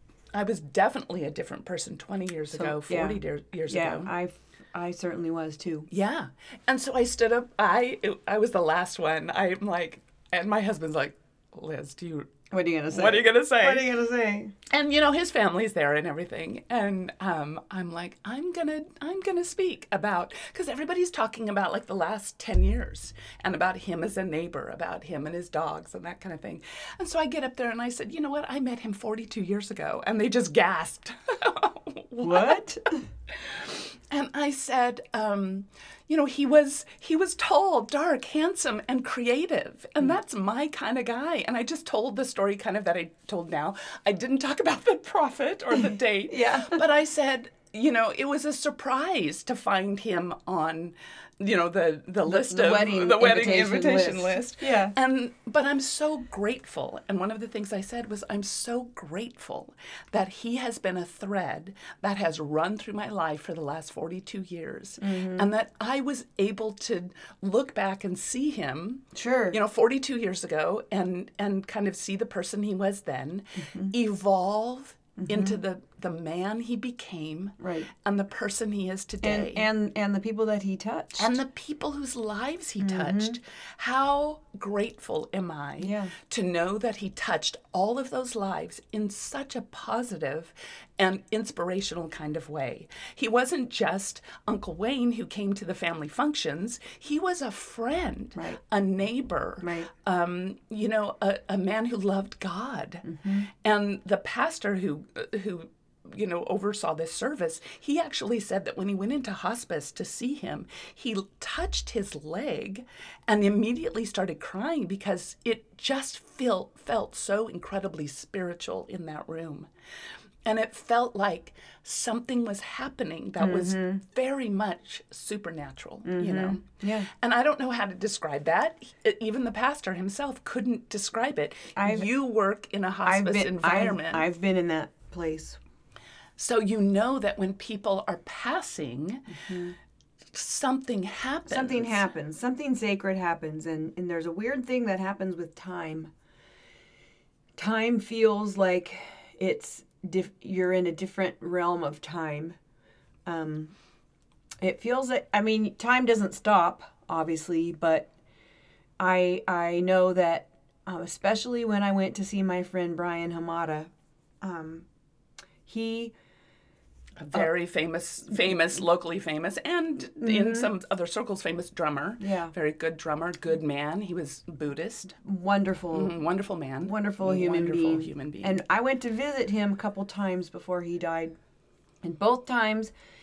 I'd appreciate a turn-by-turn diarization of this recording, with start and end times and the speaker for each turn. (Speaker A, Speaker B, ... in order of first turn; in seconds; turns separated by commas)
Speaker A: 0.3-4.1, Speaker B: 2.5-5.9, Speaker A: 5.9-12.3, Speaker B: 12.5-14.5, Speaker A: 12.9-13.9, Speaker A: 14.7-32.6, Speaker B: 32.2-33.0, Speaker A: 33.3-79.7, Speaker B: 46.3-46.8, Speaker B: 52.2-54.9, Speaker B: 65.0-65.5, Speaker B: 69.1-69.6, Speaker B: 73.6-73.9, Speaker B: 75.2-75.6, Speaker B: 77.6-77.9, Speaker B: 79.2-81.3, Speaker A: 81.2-119.7, Speaker B: 82.8-83.4, Speaker B: 85.8-86.1, Speaker B: 99.6-99.9, Speaker B: 103.0-103.5, Speaker A: 120.5-134.2, Speaker B: 123.4-124.0, Speaker B: 126.0-127.1, Speaker B: 131.8-132.1, Speaker B: 133.0-135.6, Speaker A: 136.4-139.4, Speaker B: 139.3-139.7, Speaker A: 140.3-142.1, Speaker B: 141.5-146.1, Speaker B: 147.6-152.6, Speaker B: 153.2-153.7, Speaker B: 154.6-158.1, Speaker B: 159.0-164.9, Speaker B: 165.7-166.1, Speaker A: 167.2-175.2, Speaker B: 170.2-170.7, Speaker B: 172.2-172.5, Speaker B: 175.2-176.2, Speaker A: 175.9-178.6, Speaker B: 176.8-181.3, Speaker B: 182.0-182.9